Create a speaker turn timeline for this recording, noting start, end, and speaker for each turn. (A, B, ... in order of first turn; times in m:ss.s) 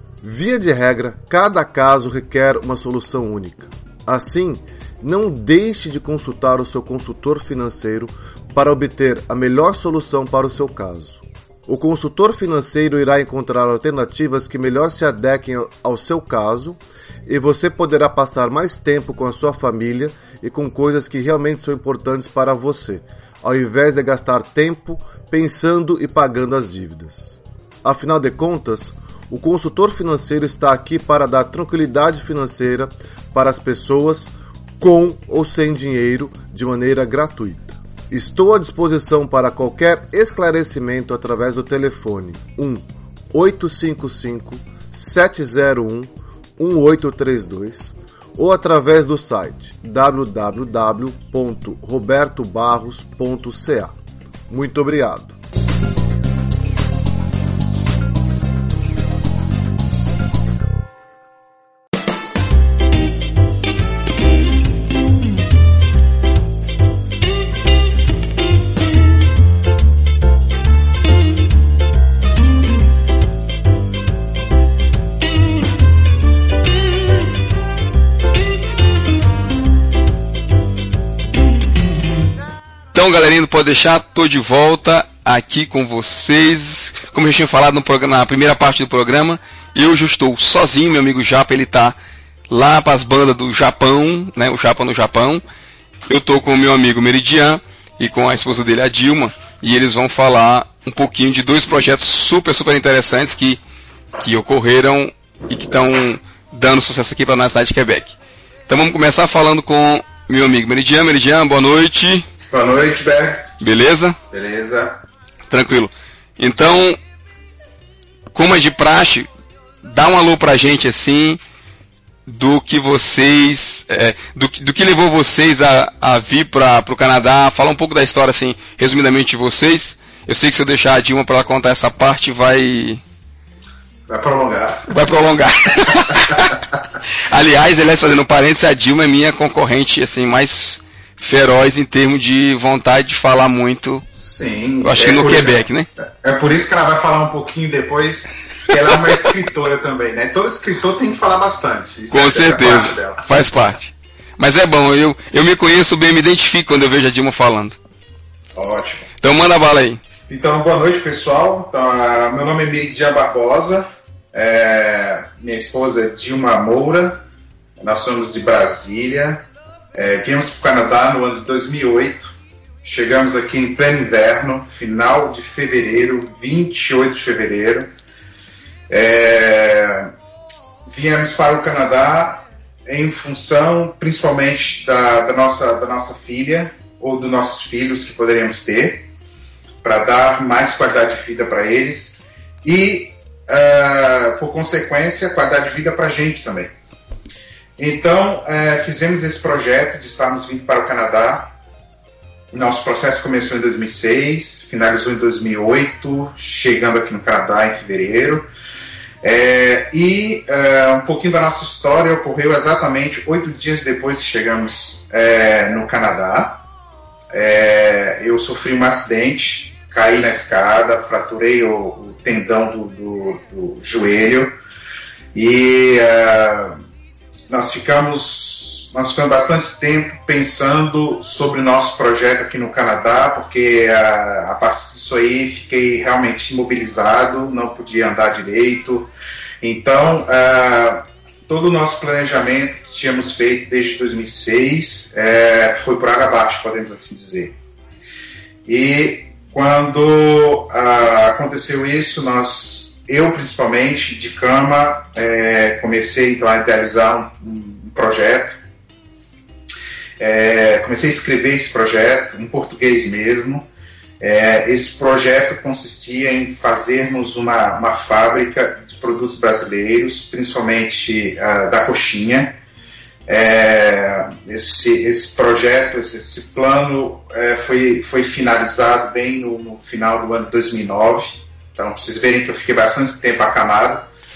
0:00.2-0:53.9 A
0:54.5-0:55.4 A
1:22.9-1:32.0 B
1:32.5-1:35.4 B
1:36.1-1:43.6 B
1:44.2-1:48.2 B
1:48.7-1:52.3 B
1:52.5-1:53.5 C
1:53.6-1:54.2 B
1:54.3-1:55.0 C
1:55.5-1:57.0 B
1:58.3-1:59.3 B
1:59.8-2:01.4 B
2:02.3-2:13.0 B
2:14.1-2:14.9 C
2:14.9-2:16.6 B
2:16.0-2:16.4 C
2:17.3-2:24.0 B
2:24.2-2:33.4 C
2:24.8-2:25.9 B
2:32.1-2:37.8 B
2:38.6-2:39.1 C
2:39.2-2:40.0 B
2:40.3-2:47.2 C
2:47.8-2:57.9 C
2:58.9-3:00.1 C
3:00.9-3:09.1 C
3:09.8-3:16.7 C
3:17.8-3:21.5 C
3:22.5-3:28.5 C
3:29.2-3:36.6 C
3:37.3-3:44.6 C
3:45.3-3:46.8 C
3:47.5-3:59.1 C
3:59.6-4:07.6 C
4:08.6-4:18.6 C
4:20.2-4:23.7 C
4:24.2-4:32.6 C
4:33.3-4:44.1 C